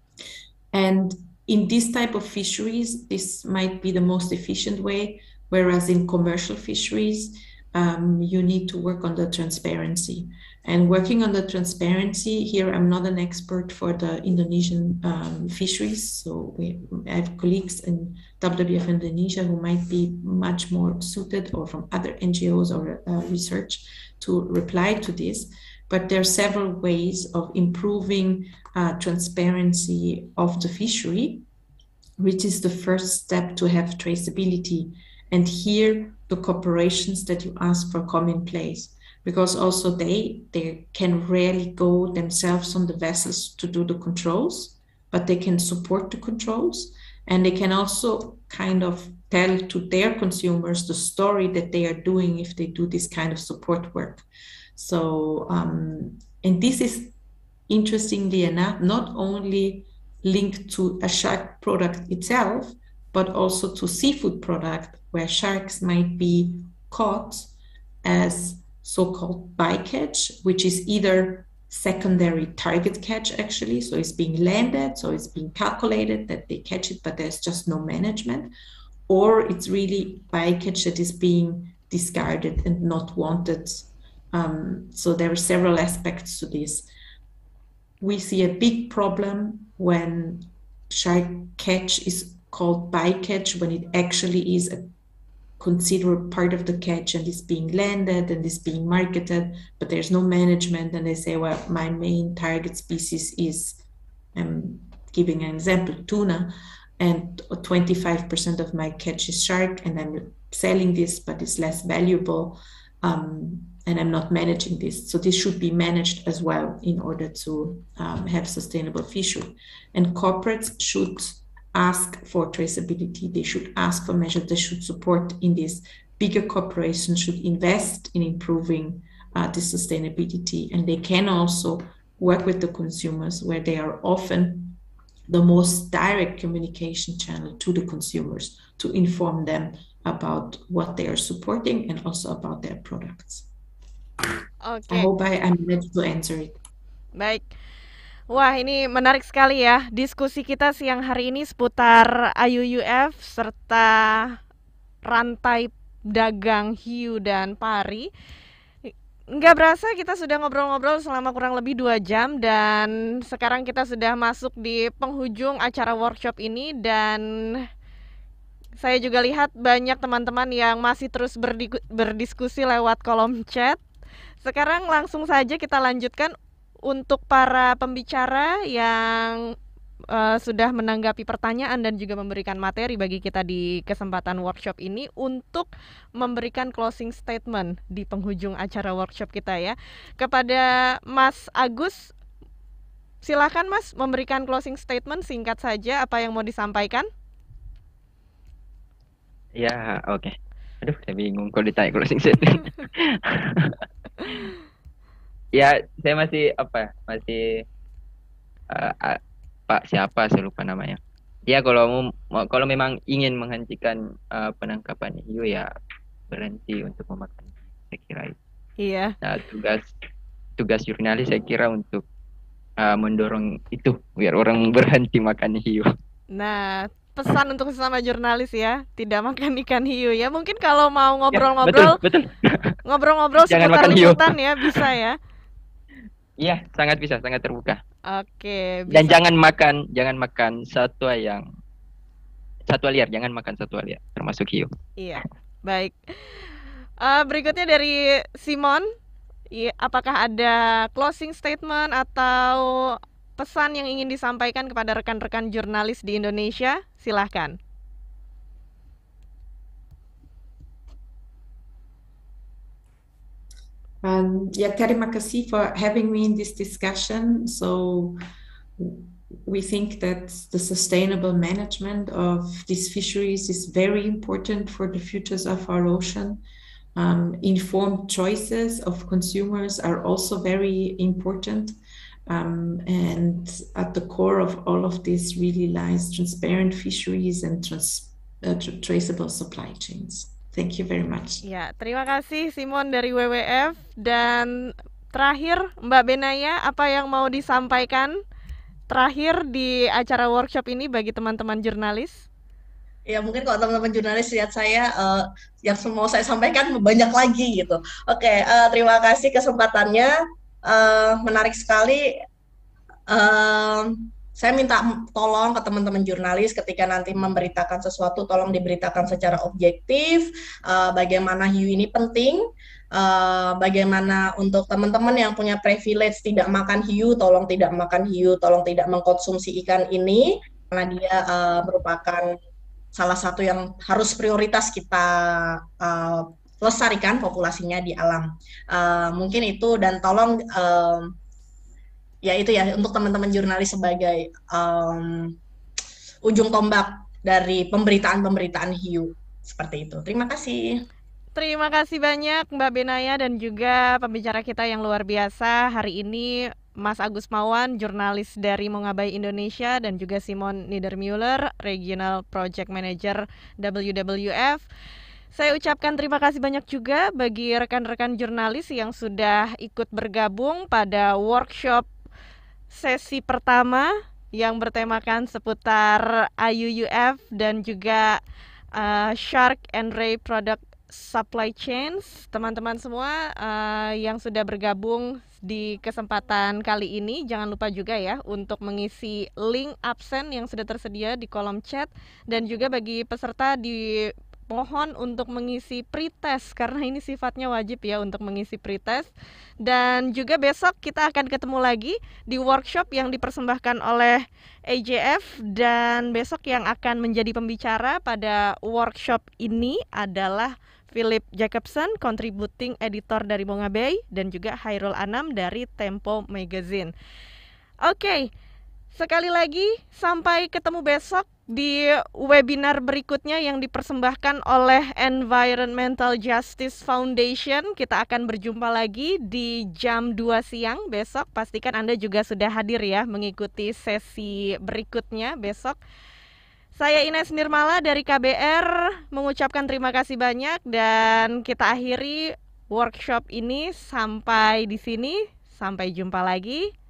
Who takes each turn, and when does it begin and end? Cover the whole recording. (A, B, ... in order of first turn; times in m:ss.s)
0:00.7-0:31.4 A
0:32.2-0:57.1 A
0:57.7-1:07.5 A
1:08.0-1:18.5 A
1:19.1-1:26.9 A
1:28.0-1:34.9 A
1:35.6-1:43.8 A
1:44.3-2:14.8 A
2:15.3-2:23.5 A
2:24.6-2:25.1 B
2:24.9-2:26.6 A
2:27.2-2:27.4 B
2:28.3-2:34.4 B
2:35.0-2:38.1 B
2:39.3-2:47.6 B
2:48.8-2:53.8 B
2:54.4-2:56.3 B
2:56.8-2:59.5 B
3:00.1-3:12.1 B
3:13.2-3:17.1 B
3:19.6-3:23.8 C
3:25.5-3:27.6 C
3:28.7-3:35.7 C
3:36.3-3:38.4 C
3:38.8-3:39.1 B
3:39.2-3:39.9 C
3:40.6-3:42.0 C
3:42.8-3:45.9 C
3:46.3-3:52.0 B
3:51.3-3:52.7 C
3:52.8-3:55.2 B
3:53.4-3:54.8 C
3:56.4-3:57.8 C
3:58.1-3:59.2 B
3:58.9-4:01.5 C
4:02.7-4:04.7 C
4:05.0-4:06.4 B
4:07.0-4:08.9 B
4:09.5-4:17.6 B
4:24.0-4:28.2 A
4:28.8-4:36.4 A
4:36.9-4:41.8 A
4:42.3-4:51.4 A
4:51.4-4:58.2 B
4:58.9-5:02.2 B
5:03.1-5:10.1 D
5:10.6-5:12.1 D
5:13.1-5:32.4 D
5:32.9-5:41.1 D
5:42.2-5:45.3 D
5:46.2-5:50.8 D
5:51.3-6:04.6 B
6:05.3-6:11.9 B
6:12.7-6:18.2 B
6:18.7-6:39.1 B
6:39.6-6:56.9 B
6:57.8-6:58.3 B
6:58.9-7:15.8 B
7:16.8-7:26.7 B